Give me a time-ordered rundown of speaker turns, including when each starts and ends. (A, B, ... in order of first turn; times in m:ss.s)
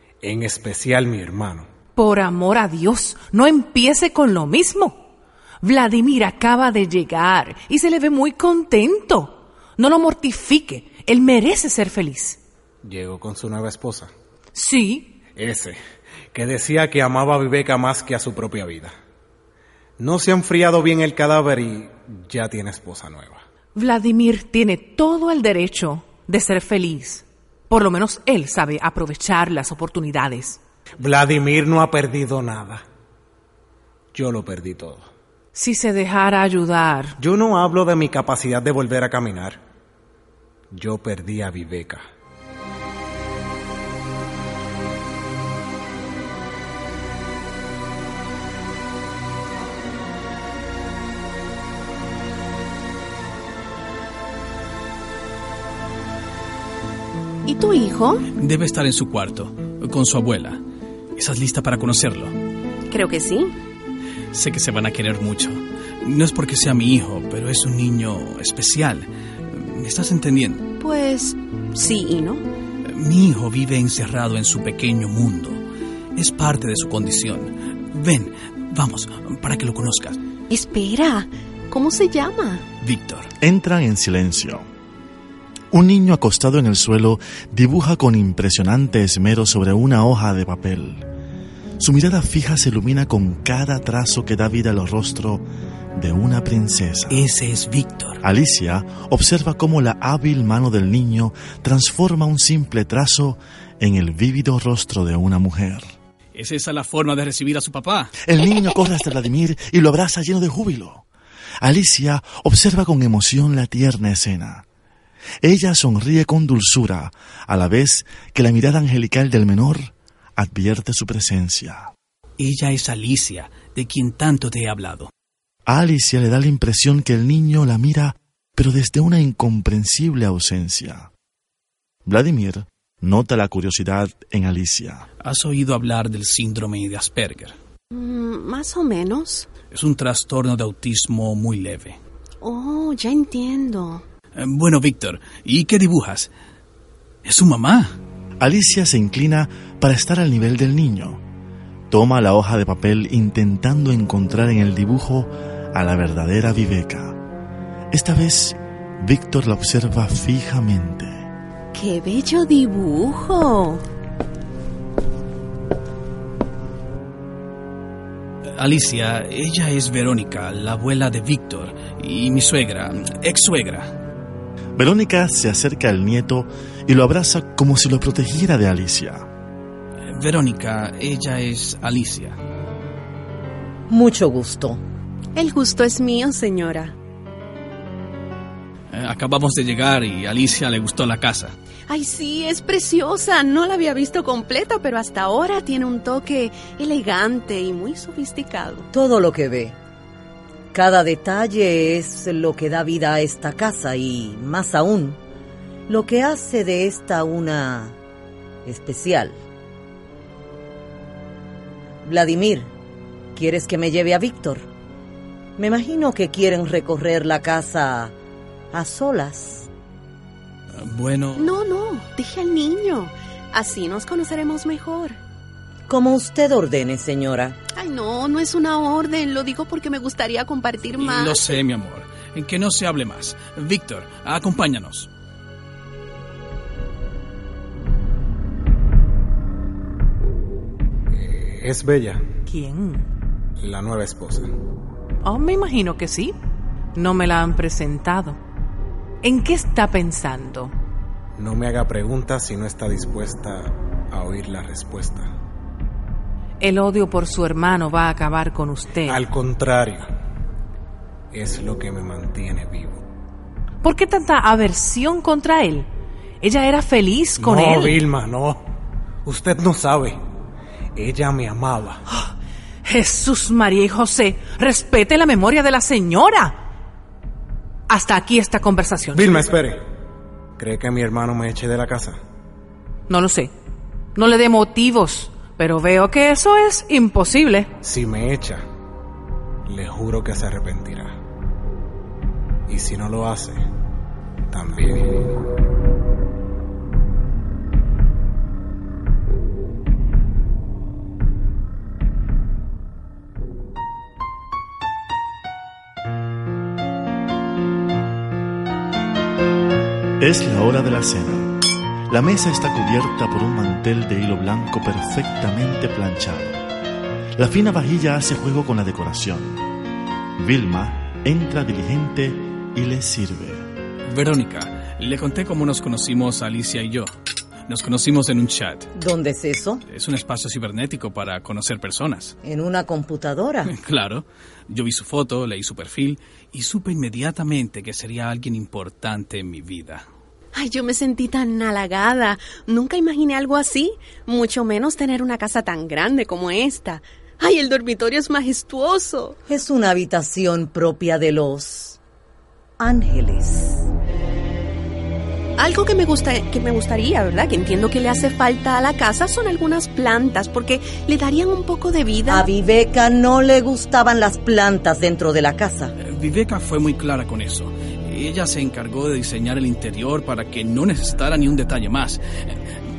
0:00.2-0:01.6 A
0:02.0-0:05.0 B
0:05.6-0:12.4 B
0:12.8-0:14.1 A
0:14.5-0:15.1 B
0:15.4-0:15.8 A
0:16.3-0:18.9 A
0:20.0-0:23.4 A
0:23.7-0:30.6 B
0:31.0-0:32.8 A
0:34.1-0:35.1 A
0:35.5-0:37.2 B
0:37.2-0:39.6 A
0:40.7-0:42.0 A
0:57.4-0:58.2 C
0:58.3-1:00.6 D
1:01.2-1:02.4 D
1:02.9-1:03.5 C
1:04.3-1:10.6 D
1:10.8-1:12.4 C
1:12.8-1:15.6 D
1:16.1-1:20.2 D
1:20.5-1:22.6 C
1:22.8-1:23.3 D
1:23.4-1:24.6 E
1:25.7-1:31.0 E
1:31.8-1:37.3 E
1:37.1-1:38.2 D
1:38.2-1:45.9 E
1:46.3-1:48.2 D
1:48.2-1:51.0 E
1:51.6-1:54.6 E
1:55.4-2:01.9 E
2:02.4-2:05.1 D
2:05.7-2:11.1 E
2:12.0-2:15.0 E
2:15.2-2:17.5 D
2:17.9-2:19.5 C
2:19.7-2:22.0 D
2:22.4-2:24.0 C
2:24.4-2:26.3 D
2:27.2-2:28.0 D
2:28.4-2:31.2 E
2:31.9-2:37.2 E
2:37.9-2:41.1 E
2:41.7-2:43.8 C
2:48.6-2:53.9 D
2:54.8-2:59.3 E
3:00.1-3:02.4 D
3:03.9-3:04.8 F
3:05.4-3:06.9 C
3:08.9-3:11.5 D
3:11.9-3:18.9 C
3:18.9-3:19.8 F
3:20.7-3:25.2 F
3:25.9-3:28.0 F
3:28.6-3:29.4 F
3:32.0-3:32.7 F
3:33.3-3:34.7 F
3:35.6-3:38.1 F
3:38.7-3:39.7 F
3:40.8-3:41.5 D
3:41.4-3:45.2 C
3:45.9-3:47.6 F
3:47.8-3:51.5 C
3:51.0-3:55.1 D
4:01.1-4:02.2 A
4:02.5-4:03.0 B
4:03.6-4:04.5 A
4:05.2-4:06.3 B
4:06.9-4:08.4 B
4:09.2-4:10.7 B
4:11.4-4:15.3 A
4:16.6-4:19.2 B
4:19.0-4:20.1 A
4:21.3-4:23.0 A
4:23.8-4:25.9 B
4:26.4-4:28.0 B
4:27.4-4:28.6 A
4:29.2-4:30.2 A
4:30.9-4:32.0 A
4:32.8-4:36.6 B
4:37.9-4:39.5 B
4:39.1-4:39.8 A
4:40.6-4:42.2 A
4:43.1-4:43.5 B
4:44.1-4:47.7 B
4:47.8-4:48.6 A
4:49.6-4:51.2 A
4:52.7-4:53.6 A
4:54.5-4:55.3 A
5:10.2-5:11.5 E
5:12.1-5:16.6 E
5:17.4-5:19.6 E
5:20.4-5:23.6 E
5:24.0-5:27.1 D
5:27.7-5:28.9 D
5:28.9-5:29.8 F
5:29.9-5:32.3 D
5:32.4-5:33.7 F
5:33.7-5:40.0 D
5:40.5-5:49.4 C
5:49.5-5:52.0 F
5:52.8-5:53.9 F
5:55.6-6:02.4 C
6:02.3-6:05.9 F
6:06.0-6:12.6 D